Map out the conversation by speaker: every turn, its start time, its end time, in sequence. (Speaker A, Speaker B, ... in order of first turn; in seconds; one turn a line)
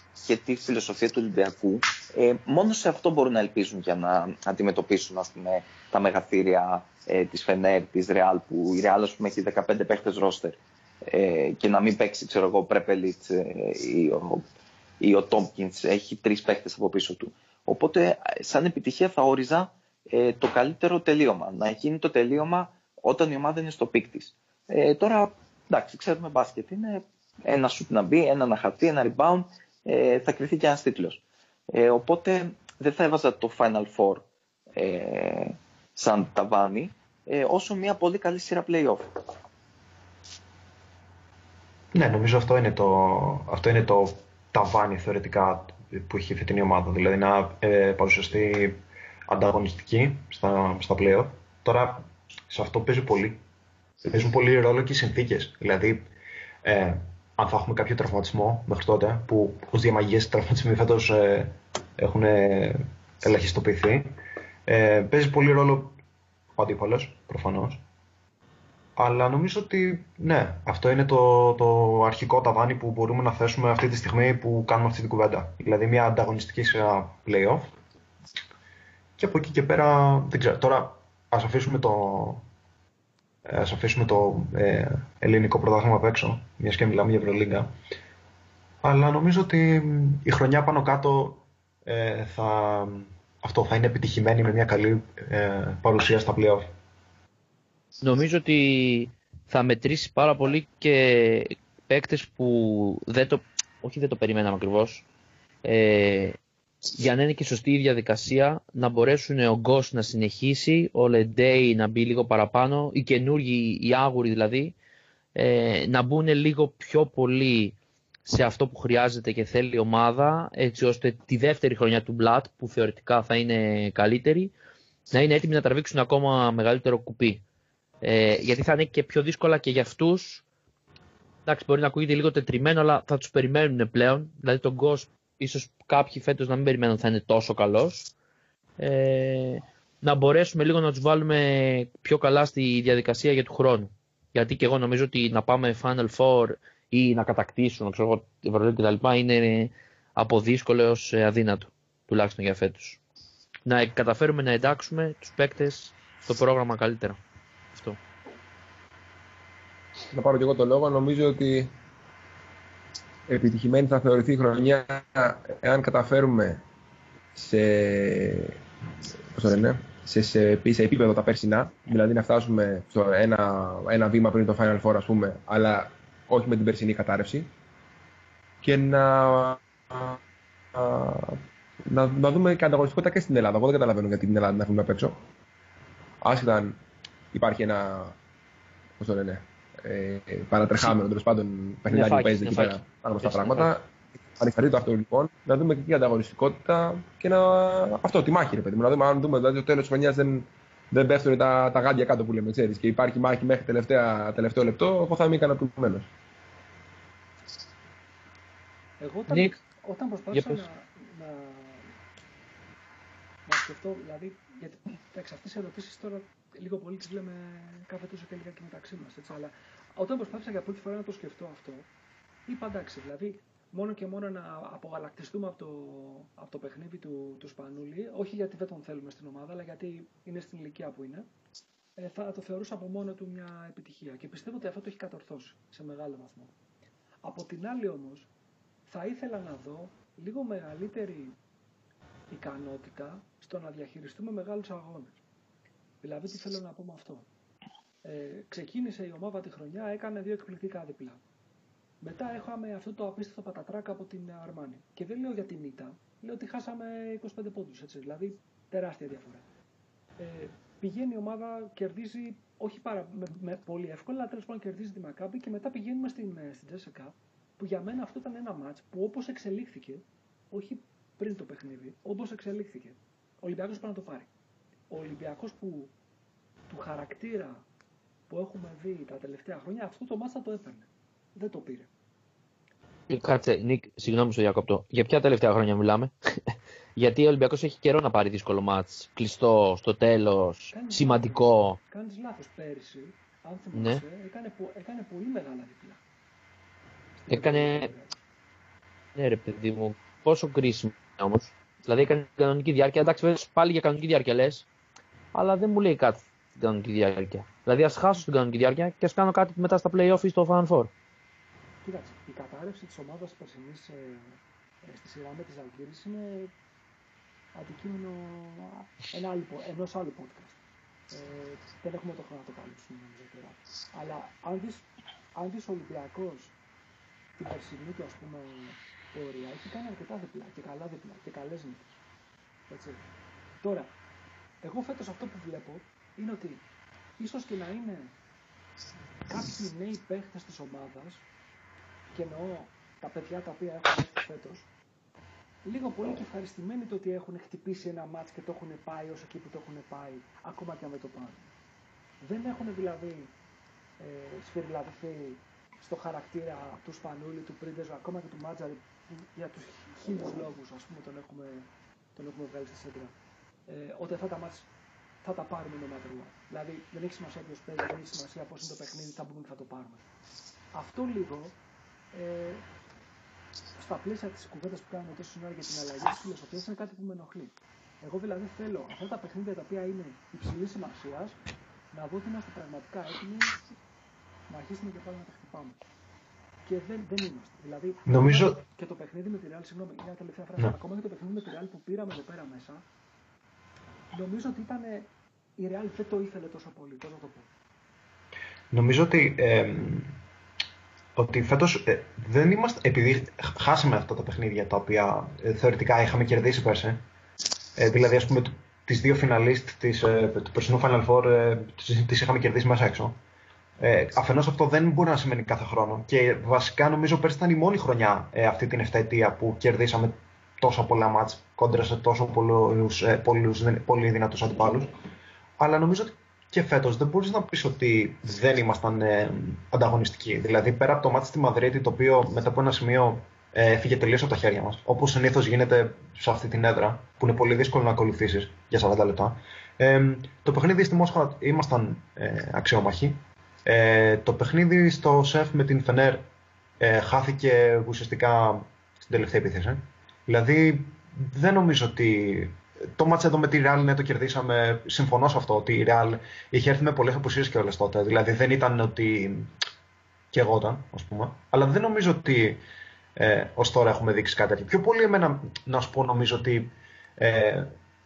Speaker A: 0.2-14.4
Speaker A: 15.0-39.1
Speaker B: 41.9-53.4
Speaker B: 54.0-56.1
Speaker B: 56.6-66.0
Speaker B: 66.6-67.8
Speaker B: 69.0-77.7
Speaker B: 79.2-82.5
Speaker B: 83.5-87.7
Speaker B: 88.8-96.7
Speaker C: 98.0-105.1
Speaker C: 105.6-106.4
Speaker C: 106.9-114.8
Speaker C: 115.3-124.5
Speaker C: 125.1-127.4
Speaker C: 128.0-130.4
Speaker C: 131.5-138.1
Speaker C: 138.8-153.0
Speaker C: 153.7-157.2
Speaker C: 157.7-158.0
Speaker D: 160.1-161.7
Speaker D: 163.3-166.6
Speaker D: 167.3-168.6
Speaker D: 169.3-177.5
Speaker D: 178.6-180.2
Speaker D: 180.7-185.2
Speaker D: 186.2-186.8
Speaker D: 187.3-188.2
Speaker D: 189.0-206.1
Speaker C: 191.9-193.7
Speaker E: 209.0-211.9
Speaker C: 209.3-209.6
Speaker C: 210.3-210.6
Speaker E: 213.5-221.9
Speaker E: 222.5-231.3
Speaker E: 232.0-236.6
Speaker E: 237.2-238.3
Speaker E: 238.9-241.4
Speaker E: 242.3-245.2
Speaker E: 246.0-247.3
Speaker E: 248.0-251.2
Speaker E: 252.0-259.5
Speaker E: 260.2-274.3
Speaker E: 274.9-275.9
Speaker E: 276.7-277.6
Speaker E: 278.3-281.9
Speaker C: 283.1-291.8
Speaker E: 290.7-296.0
Speaker C: 293.8-294.0
Speaker E: 297.2-298.1
Speaker C: 297.3-297.9
Speaker C: 299.1-304.7
Speaker C: 305.3-310.9
Speaker E: 311.8-316.5
Speaker E: 317.6-320.6
Speaker E: 321.1-326.6
Speaker E: 327.4-332.0
Speaker E: 332.7-333.1
Speaker E: 333.6-333.9
Speaker E: 334.6-336.6
Speaker E: 337.2-338.2
Speaker E: 339.3-341.3
Speaker E: 342.1-344.7
Speaker E: 345.6-351.5
Speaker E: 352.2-353.3
Speaker E: 354.0-363.1
Speaker E: 363.7-364.7
Speaker E: 365.2-370.1
Speaker E: 370.7-371.6
Speaker E: 372.1-372.7
Speaker E: 373.8-381.4
Speaker E: 381.9-383.6
Speaker E: 384.5-385.8
Speaker E: 386.6-392.9
Speaker B: 388.1-388.6
Speaker E: 394.1-397.5
Speaker B: 398.7-400.2
Speaker B: 401.2-407.0
Speaker B: 407.8-413.2
Speaker B: 413.8-424.9
Speaker B: 425.6-446.3
Speaker B: 446.8-459.5
Speaker B: 460.3-462.6
Speaker B: 463.2-467.7